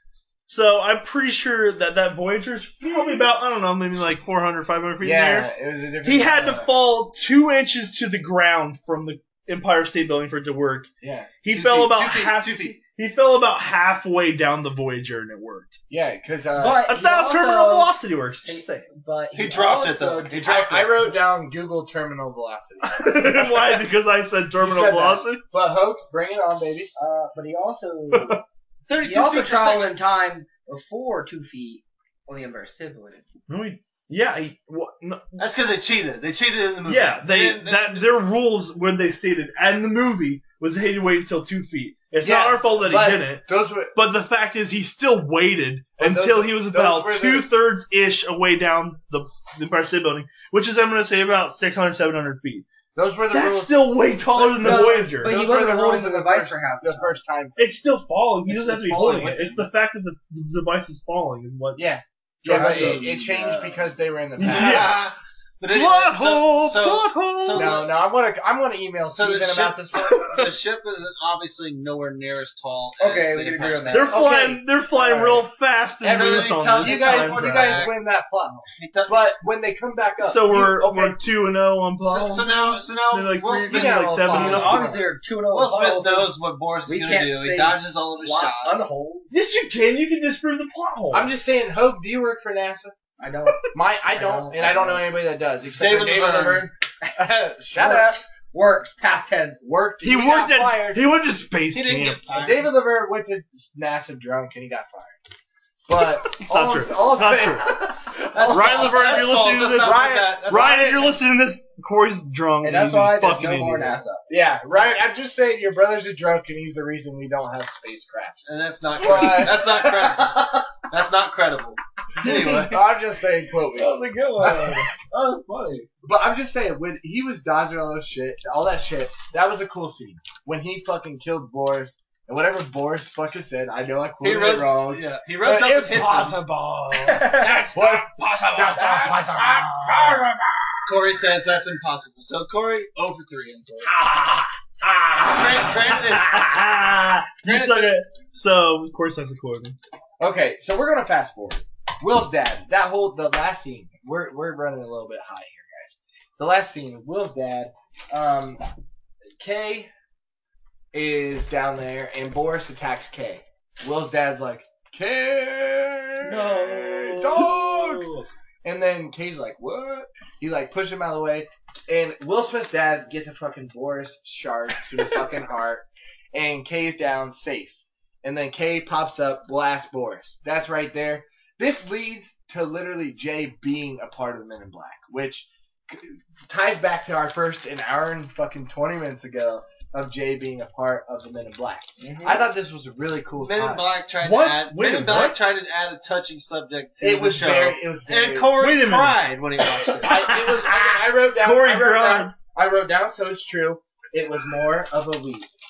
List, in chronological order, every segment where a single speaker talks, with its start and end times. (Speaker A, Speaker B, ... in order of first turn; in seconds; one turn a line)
Speaker A: 0.5-5.5
Speaker B: 2.9-3.2
Speaker B: 5.0-6.7
Speaker A: 6.0-10.9
Speaker B: 11.0-11.4
Speaker A: 11.4-15.8
Speaker C: 11.5-12.8
Speaker B: 15.9-16.8
Speaker D: 16.6-17.9
Speaker A: 16.8-18.9
Speaker D: 18.4-20.4
Speaker C: 19.3-21.1
Speaker B: 20.4-23.8
Speaker A: 22.8-25.4
Speaker B: 24.6-26.9
Speaker D: 26.9-28.4
Speaker A: 28.1-28.4
Speaker C: 28.9-29.9
Speaker D: 29.0-33.2
Speaker A: 33.5-35.5
Speaker C: 35.4-38.0
Speaker A: 36.9-52.7
Speaker B: 42.2-43.9
Speaker B: 46.0-47.5
Speaker B: 52.9-57.8
Speaker A: 53.3-55.3
Speaker D: 54.6-57.2
Speaker A: 57.6-61.9
Speaker C: 58.5-59.6
Speaker B: 61.8-65.0
Speaker A: 62.5-63.0
Speaker D: 62.5-64.0
Speaker A: 64.4-65.0
Speaker C: 64.4-67.9
Speaker A: 65.7-67.8
Speaker B: 67.5-70.3
Speaker C: 69.1-74.2
Speaker A: 70.2-70.4
Speaker D: 73.0-74.2
Speaker A: 73.9-77.8
Speaker B: 74.1-75.5
Speaker B: 76.0-81.2
Speaker C: 76.1-78.0
Speaker C: 78.8-79.4
Speaker A: 80.2-84.9
Speaker C: 82.0-84.0
Speaker D: 83.5-89.4
Speaker B: 83.7-85.0
Speaker C: 85.5-88.9
Speaker A: 89.3-91.3
Speaker B: 91.1-92.9
Speaker D: 93.2-95.1
Speaker B: 93.7-98.2
Speaker C: 95.6-96.7
Speaker D: 97.7-99.6
Speaker B: 99.6-101.1
Speaker A: 100.0-102.3
Speaker C: 101.7-102.7
Speaker B: 102.3-105.2
Speaker B: 105.9-111.1
Speaker A: 106.2-114.0
Speaker C: 108.3-111.1
Speaker D: 112.6-114.3
Speaker B: 114.3-120.6
Speaker C: 118.5-122.8
Speaker D: 119.0-119.9
Speaker A: 122.2-122.7
Speaker B: 122.3-124.9
Speaker D: 123.8-125.9
Speaker B: 126.0-140.2
Speaker C: 134.2-136.4
Speaker D: 137.0-137.6
Speaker A: 137.1-140.2
Speaker D: 138.8-139.1
Speaker D: 139.8-140.2
Speaker C: 140.8-143.8
Speaker D: 143.8-144.4
Speaker B: 144.9-145.2
Speaker C: 145.2-146.5
Speaker A: 145.2-149.8
Speaker B: 147.4-147.9
Speaker B: 150.2-158.6
Speaker B: 159.4-159.9
Speaker B: 160.9-168.1
Speaker A: 166.3-168.2
Speaker D: 166.5-167.2
Speaker B: 168.6-193.9
Speaker D: 192.0-192.4
Speaker C: 193.4-200.3
Speaker A: 194.2-195.4
Speaker B: 197.0-198.7
Speaker A: 198.5-202.3
Speaker B: 200.0-205.5